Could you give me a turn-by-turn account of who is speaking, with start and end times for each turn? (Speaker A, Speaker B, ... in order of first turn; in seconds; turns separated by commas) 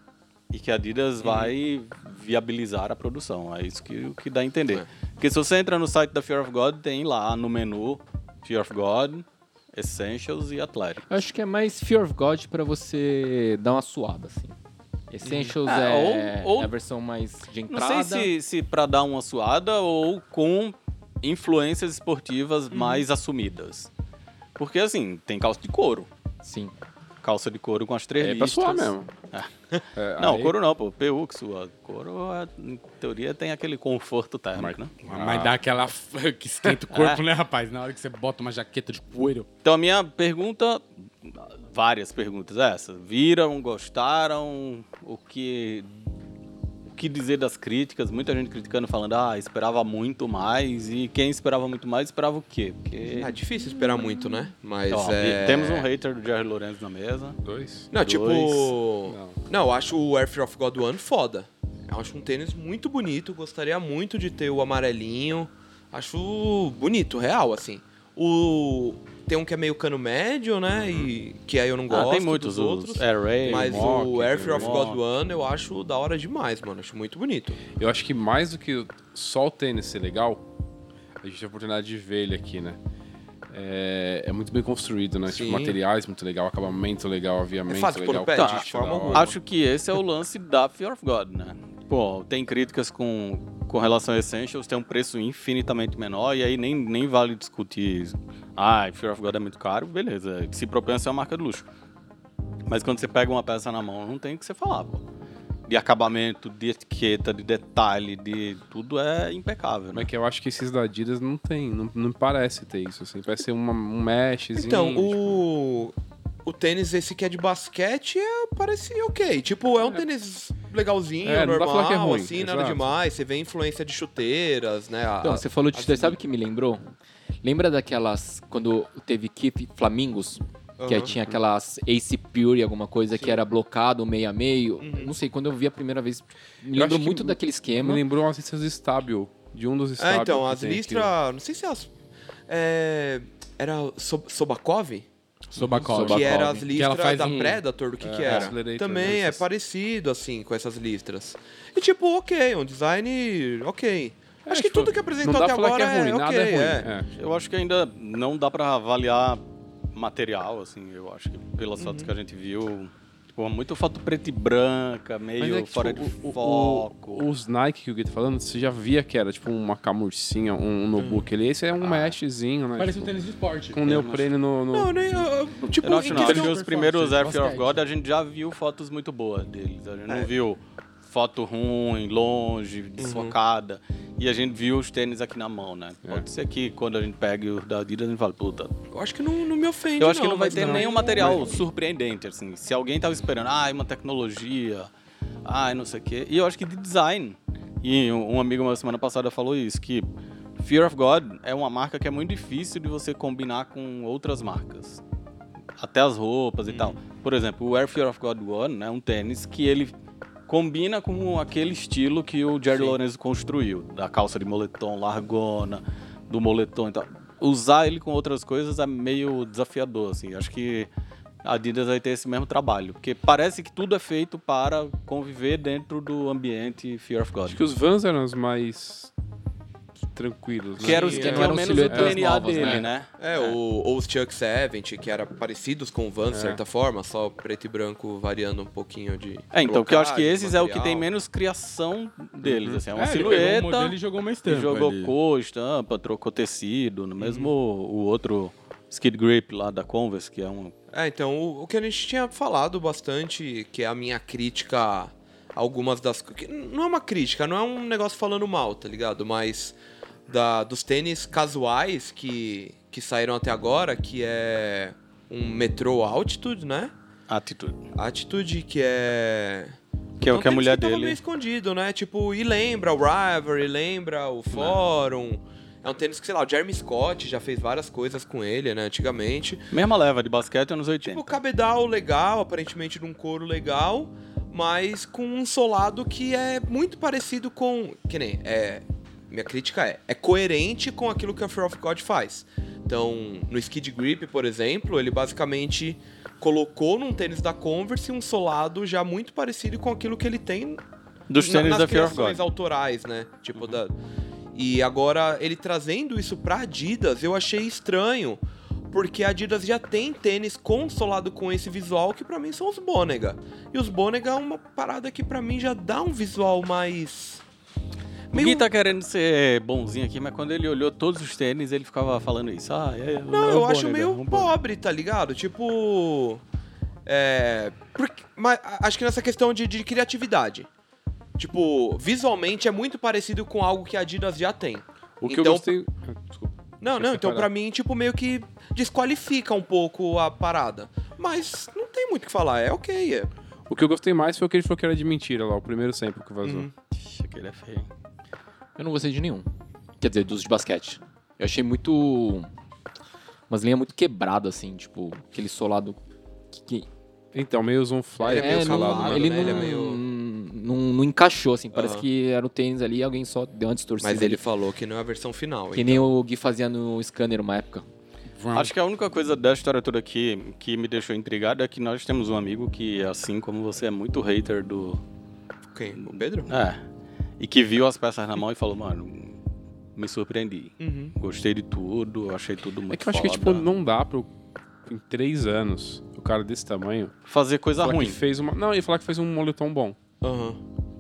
Speaker A: 0.5-11.1, Speaker B: 1.2-1.5, Speaker C: 11.1-14.6, Speaker C: 15.1-18.3, Speaker B: 15.2-15.5, Speaker A: 15.6-16.7, Speaker A: 17.7-23.9, Speaker B: 22.7-23.0, Speaker A: 24.6-26.1, Speaker C: 26.4-26.7, Speaker A: 27.2-29.5, Speaker D: 28.2-29.1, Speaker D: 29.9-30.6, Speaker A: 30.2-34.9, Speaker D: 34.5-35.6, Speaker E: 35.0-39.5, Speaker A: 36.9-37.2, Speaker A: 39.6-46.1, Speaker A: 46.9-53.3, Speaker B: 53.2-55.9, Speaker A: 54.9-57.4, Speaker D: 57.4-57.9, Speaker B: 57.9-77.6, Speaker A: 57.9-58.8, Speaker D: 59.1-59.4, Speaker D: 70.8-71.1, Speaker A: 71.9-75.0, Speaker D: 73.4-74.8, Speaker D: 77.7-80.4, Speaker D: 81.2-82.8, Speaker D: 83.5-89.3, Speaker B: 85.3-85.8, Speaker B: 87.7-89.4, Speaker A: 88.3-101.7, Speaker A: 102.7-105.0, Speaker A: 105.7-110.1, Speaker D: 109.9-115.4, Speaker B: 114.6-115.9, Speaker B: 116.5-126.2, Speaker D: 121.2-122.9, Speaker C: 125.2-126.9, Speaker C: 127.4-138.0, Speaker B: 130.8-131.1, Speaker D: 131.1-131.4, Speaker B: 134.8-135.2, Speaker D: 136.8-141.1, Speaker B: 140.0-141.9, Speaker B: 142.5-145.1, Speaker E: 145.5-147.6, Speaker D: 145.8-146.2, Speaker C: 145.8-146.7, Speaker B: 145.9-156.9, Speaker D: 148.0-149.5, Speaker D: 154.5-157.1, Speaker A: 157.2-159.4, Speaker A: 159.9-167.2, Speaker B: 161.8-162.1, Speaker D: 165.4-173.2, Speaker B: 171.0-171.3, Speaker E: 172.8-173.8, Speaker D: 173.7-175.3, Speaker A: 173.8-174.3, Speaker B: 174.7-176.6, Speaker A: 175.8-188.7, Speaker E: 176.1-177.8, Speaker B: 183.0-183.4, Speaker B: 188.9-191.6, Speaker A: 190.0-194.9, Speaker D: 190.6-191.4, Speaker A: 195.4-200.1, Speaker A: 200.6-205.0, Speaker A: 205.8-209.9, Speaker B: 206.7-207.0, Speaker A: 210.5-220.9, Speaker B: 212.7-213.0, Speaker A: 221.4-227.6, Speaker D: 227.5-229.1, Speaker D: 230.0-232.8, Speaker B: 230.8-231.6, Speaker A: 230.8-233.6, Speaker C: 230.9-232.9, Speaker B: 233.2-241.1, Speaker D: 236.3-236.6, Speaker A: 239.5-250.7, Speaker D: 242.4-242.8, Speaker E: 242.9-245.1, Speaker B: 247.2-247.5, Speaker B: 250.9-259.8, Speaker B: 260.3-266.9, Speaker A: 267.3-267.9, Speaker B: 267.9-279.6, Speaker A: 270.2-271.2, Speaker A: 274.5-274.8, Speaker A: 279.7-281.4, Speaker B: 281.1-300.8, Speaker A: 301.3-302.4, Speaker B: 301.4-303.9, Speaker B: 304.6-317.4, Speaker B: 318.3-318.7, Speaker A: 318.3-324.5, Speaker B: 323.3-326.4, Speaker B: 327.1-330.7, Speaker B: 331.4-335.8, Speaker D: 335.2-337.5, Speaker B: 336.8-343.3, Speaker D: 343.7-346.7, Speaker B: 346.4-346.7, Speaker A: 346.9-347.9, Speaker C: 348.8-349.5, Speaker C: 350.0-352.5, Speaker C: 353.5-356.0, Speaker C: 356.5-356.9, Speaker D: 357.3-359.7, Speaker B: 358.2-360.0, Speaker C: 358.2-364.4, Speaker B: 361.7-362.1, Speaker B: 364.0-366.1, Speaker C: 365.7-367.8, Speaker E: 368.3-368.7, Speaker A: 368.5-375.0, Speaker B: 375.7-376.5, Speaker A: 376.1-376.8, Speaker A: 377.4-379.4, Speaker A: 380.0-383.6, Speaker B: 380.8-381.1, Speaker D: 382.9-384.3, Speaker D: 384.9-387.1, Speaker A: 387.3-388.2, Speaker D: 387.8-390.0, Speaker B: 390.2-390.6